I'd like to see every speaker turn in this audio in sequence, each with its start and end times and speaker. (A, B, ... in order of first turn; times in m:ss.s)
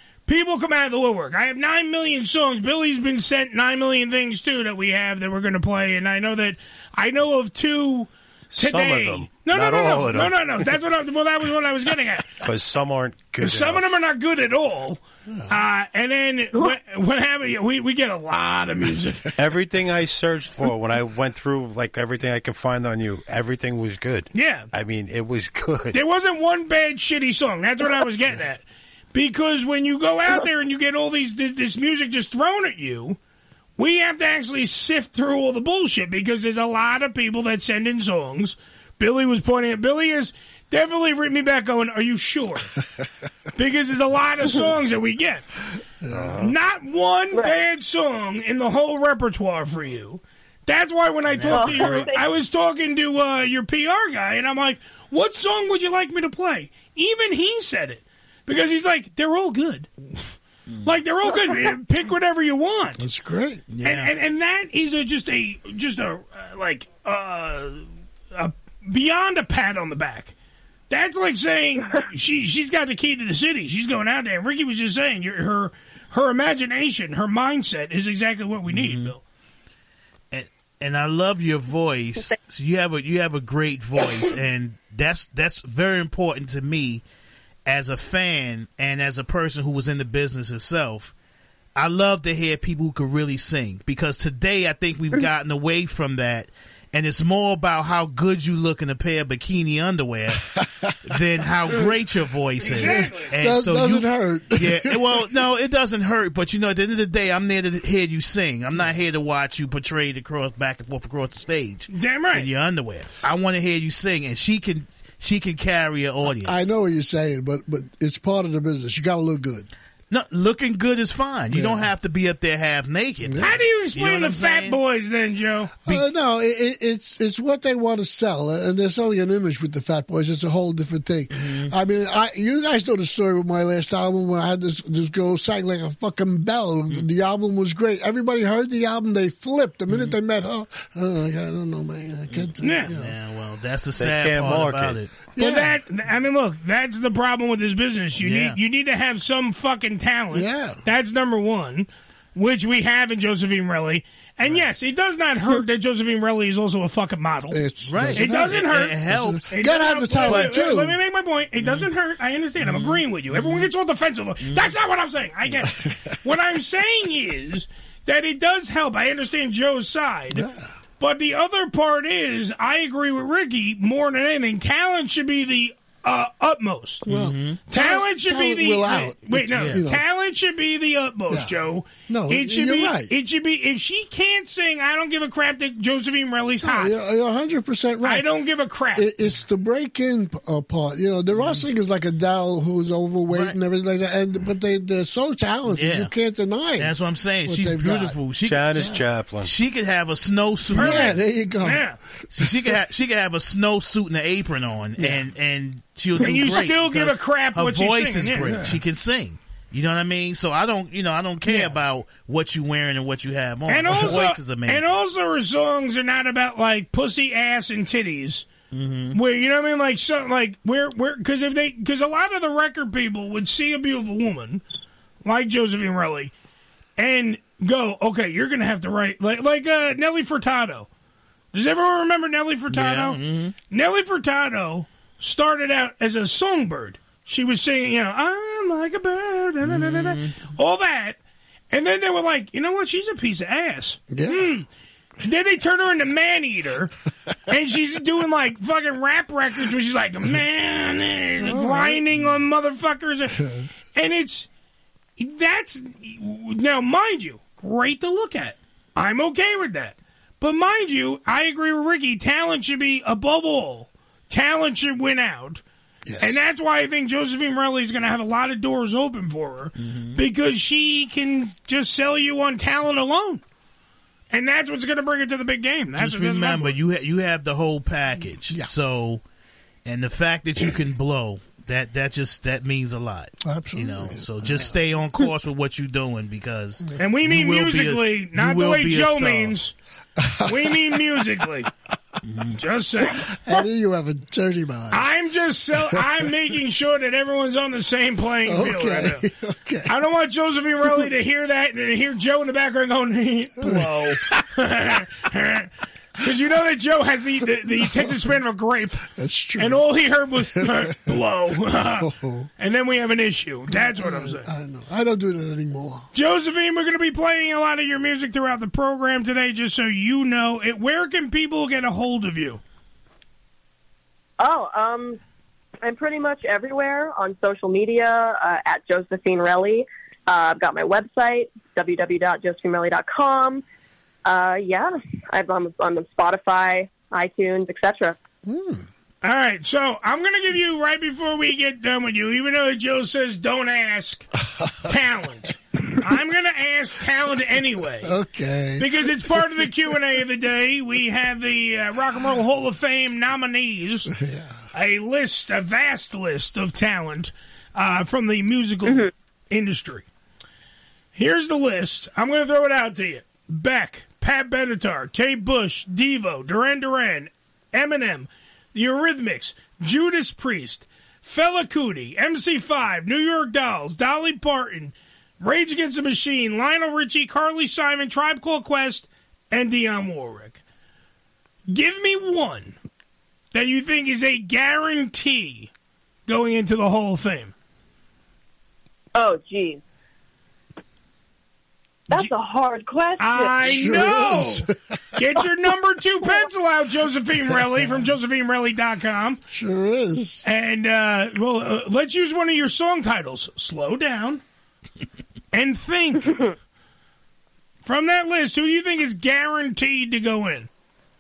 0:00.3-0:12.4 A
0:08.5-0:10.6 B
0:12.4-0:13.9 B
0:13.4-0:19.3 A
0:19.4-0:26.0 B
0:24.3-0:24.7 A
0:25.9-0:33.2 A
0:33.8-0:42.7 A
0:43.6-0:45.4 A
0:46.0-0:46.5 C
0:46.2-1:00.3 A
0:47.3-0:47.6 D
0:51.3-0:52.0 E
0:51.5-0:52.2 D
1:00.8-1:03.0 A
1:03.0-1:03.6 C
1:03.7-1:04.1 E
1:03.8-1:10.3 A
1:10.9-1:19.2 A
1:18.7-1:19.1 E
1:20.3-1:27.0 E
1:27.6-1:31.1 E
1:31.8-1:56.7 E
1:40.6-1:40.9 C
1:42.6-1:43.3 A
1:42.8-1:45.2 C
1:51.9-1:52.5 A
1:56.3-1:59.7 C
2:00.1-2:04.8 E
2:01.5-2:01.9 C
2:03.2-2:03.6 C
2:03.4-2:05.7 A
2:05.9-2:23.1 C
2:11.3-2:11.7 E
2:19.9-2:20.1 E
2:22.3-2:25.1 E
2:22.6-2:22.9 A
2:24.0-2:25.0 B
2:25.4-2:25.8 C
2:25.4-2:37.6 A
2:28.2-2:28.6 E
2:30.3-2:30.8 C
2:37.5-2:41.0 C
2:37.9-2:39.5 E
2:38.1-2:39.0 A
2:39.5-2:50.5 A
2:40.1-2:40.6 E
2:41.6-2:41.9 E
2:42.6-2:43.7 E
2:44.4-2:44.7 E
2:50.3-2:50.7 C
2:51.0-2:57.0 A
2:57.0-2:57.6 E
2:57.0-3:00.0 C
2:57.7-3:06.9 A
3:02.1-3:03.1 C
3:06.6-3:08.2 C
3:08.0-3:09.1 A
3:08.9-3:18.2 C
3:13.3-3:13.6 E
3:15.7-3:16.1 E
3:16.8-3:21.2 E
3:18.4-3:19.5 B
3:18.7-3:19.0 C
3:20.7-3:21.8 C
3:20.7-3:22.0 A
3:22.3-3:34.9 E
3:22.4-3:22.8 C
3:25.0-3:25.2 C
3:26.2-3:28.5 A
3:28.4-3:28.8 C
3:31.4-3:31.8 A
3:33.7-3:38.5 A
3:38.7-3:39.2 E
3:39.1-3:44.6 A
3:45.2-3:46.3 A
3:47.0-3:50.9 A
3:51.5-4:01.2 A
3:52.7-3:53.5 E
3:59.6-4:00.4 E
4:01.7-4:04.7 A
4:04.1-4:04.5 C
4:05.2-4:06.9 A
4:07.4-4:14.5 A
4:11.4-4:12.0 C
4:15.2-4:25.6 A
4:26.0-4:26.4 C
4:26.2-4:33.4 A
4:29.8-4:30.2 E
4:34.3-4:36.8 A
4:36.0-4:39.2 E
4:39.8-4:49.6 E
4:43.4-4:44.7 C
4:47.0-4:49.7 A
4:50.2-4:51.0 C
4:50.4-4:51.7 A
4:52.2-4:52.6 E
4:52.6-4:53.3 A
4:53.2-4:55.1 C
4:54.9-4:59.2 A
4:58.4-4:59.9 C
4:59.9-5:14.5 A
5:03.6-5:04.4 C
5:07.6-5:08.2 C
5:09.1-5:09.9 C
5:10.4-5:11.2 C
5:11.8-5:12.5 C
5:13.7-5:16.1 C
5:16.1-5:22.6 A
5:24.4-5:25.2 D
5:25.8-5:33.6 D
5:34.2-5:38.2 D
5:38.4-5:38.9 C
5:39.2-5:48.1 A
5:48.0-5:49.7 C
5:48.8-5:54.1 A
5:54.1-5:54.6 C
5:54.7-6:00.1 A
6:01.1-6:20.6 A
6:21.7-6:22.8 A
6:23.5-6:25.7 A
6:26.3-6:27.5 A
6:29.1-6:29.8 D
6:32.1-6:34.0 D
6:33.2-6:39.4 A
6:33.6-6:34.8 C
6:39.5-6:40.4 C
6:40.4-6:44.4 A
6:45.5-6:46.6 A
6:47.8-6:50.7 A